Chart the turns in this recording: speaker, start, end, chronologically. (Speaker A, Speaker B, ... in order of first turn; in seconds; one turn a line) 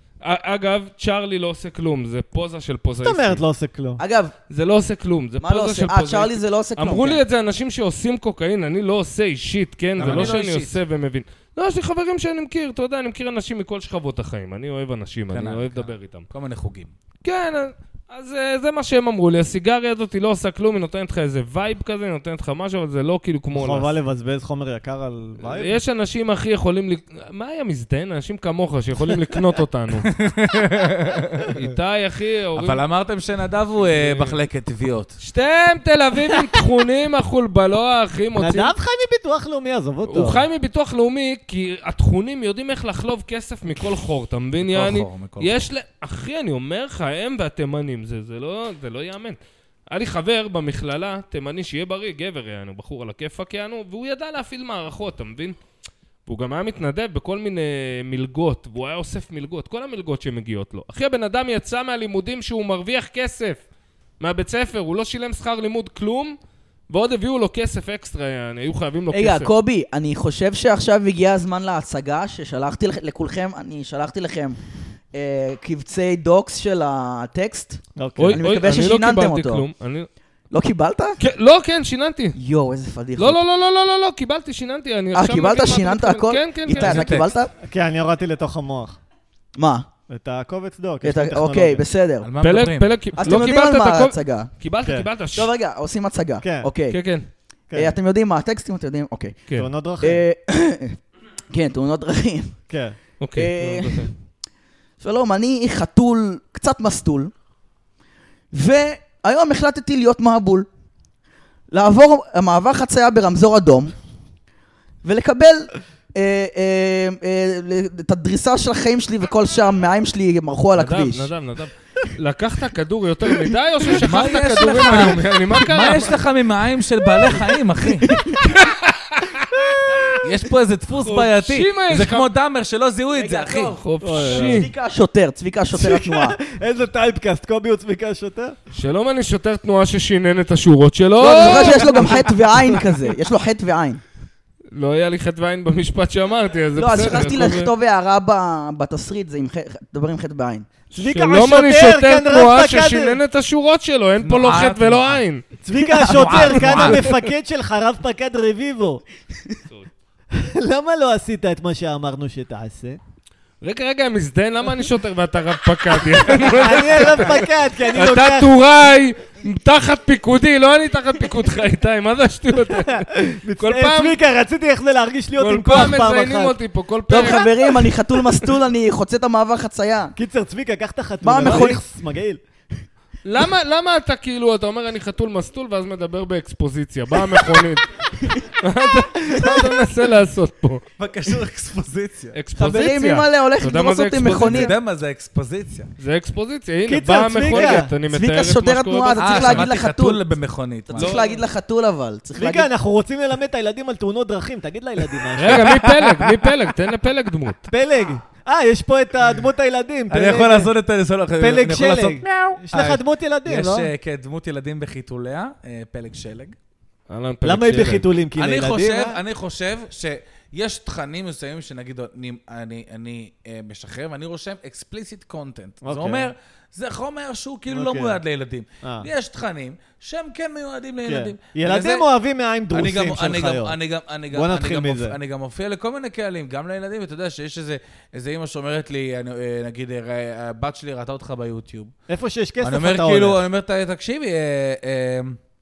Speaker A: 0.2-3.4
Speaker B: 3.0-4.0
Speaker C: 4.0-4.3
Speaker A: 4.5-16.3
Speaker C: 5.4-7.2
Speaker D: 10.0-10.8
Speaker D: 15.3-16.9
Speaker A: 17.2-23.9
Speaker B: 23.5-25.8
Speaker A: 25.4-30.1
Speaker D: 30.1-31.5
Speaker A: 31.5-32.8
Speaker D: 32.5-35.1
Speaker A: 33.8-34.4
Speaker A: 35.2-38.7
Speaker B: 38.4-40.4
Speaker A: 40.1-49.4
Speaker D: 44.6-45.6
Speaker A: 49.9-55.6
Speaker A: 56.2-63.6
Speaker A: 64.2-66.4
Speaker A: 66.9-69.5
Speaker C: 69.1-74.6
Speaker C: 75.1-77.8
Speaker B: 78.0-78.4
Speaker A: 78.2-80.1
Speaker C: 78.3-79.6
Speaker C: 80.5-81.2
Speaker A: 81.2-82.4
Speaker C: 82.3-83.4
Speaker A: 83.2-87.2
Speaker C: 85.1-87.5
Speaker D: 86.7-87.3
Speaker B: 87.6-89.0
Speaker C: 89.5-89.9
Speaker B: 90.1-91.8
Speaker C: 91.0-92.3
Speaker D: 92.2-92.9
Speaker A: 92.4-95.5
Speaker C: 93.2-94.5
Speaker C: 95.3-97.0
Speaker B: 96.4-96.7
Speaker A: 96.9-97.3
Speaker B: 97.7-97.9
Speaker C: 97.7-99.3
Speaker B: 99.5-100.2
Speaker C: 100.0-101.0
Speaker C: 101.5-102.6
Speaker B: 102.7-103.0
Speaker A: 103.2-104.1
Speaker C: 103.3-104.1
Speaker C: 105.0-107.3
Speaker C: 108.5-110.7
Speaker C: 111.7-113.9
Speaker C: 115.0-121.3
Speaker A: 120.8-126.2
Speaker D: 123.9-128.1
Speaker C: 128.1-128.4
Speaker A: 128.4-130.1
Speaker D: 130.2-133.8
Speaker A: 131.0-132.3
Speaker C: 133.1-136.4
Speaker A: 133.8-134.7
Speaker B: 134.0-134.7
Speaker B: 135.7-138.5
Speaker A: 138.7-142.2
Speaker C: 141.2-144.0
Speaker B: 141.7-142.2
Speaker A: 144.7-147.7
Speaker C: 146.7-150.7
Speaker B: 150.9-153.2
Speaker A: 150.9-155.4
Speaker D: 154.2-155.2
Speaker B: 155.6-159.0
Speaker C: 155.9-156.5
Speaker D: 156.0-157.0
Speaker B: 160.3-163.0
Speaker A: 163.6-174.2
Speaker B: 166.3-168.5
Speaker B: 172.9-176.6
Speaker A: 175.4-177.5
Speaker C: 177.1-180.1
Speaker B: 180.2-182.4
Speaker C: 181.2-181.8
Speaker A: 181.4-181.7
Speaker A: 183.2-190.8
Speaker D: 191.0-192.4
Speaker A: 192.3-194.7
Speaker C: 192.6-194.7
Speaker D: 194.3-195.9
Speaker A: 196.0-199.7
Speaker B: 196.9-197.9
Speaker C: 197.5-200.2
Speaker D: 199.2-201.2
Speaker C: 200.9-202.7
Speaker A: 200.9-201.3
Speaker B: 202.3-205.7
Speaker A: 205.4-207.7
Speaker D: 205.4-206.4
Speaker B: 207.7-210.7
Speaker D: 210.1-216.6
Speaker B: 211.4-213.9
Speaker A: 217.1-218.1
Speaker B: 217.4-219.2
Speaker D: 218.3-232.1
Speaker B: 225.8-226.3
Speaker B: 227.7-228.2
Speaker B: 228.8-229.1
Speaker B: 231.0-233.8
Speaker D: 232.7-241.9
Speaker B: 234.3-235.2
Speaker B: 242.1-243.4
Speaker D: 242.6-245.4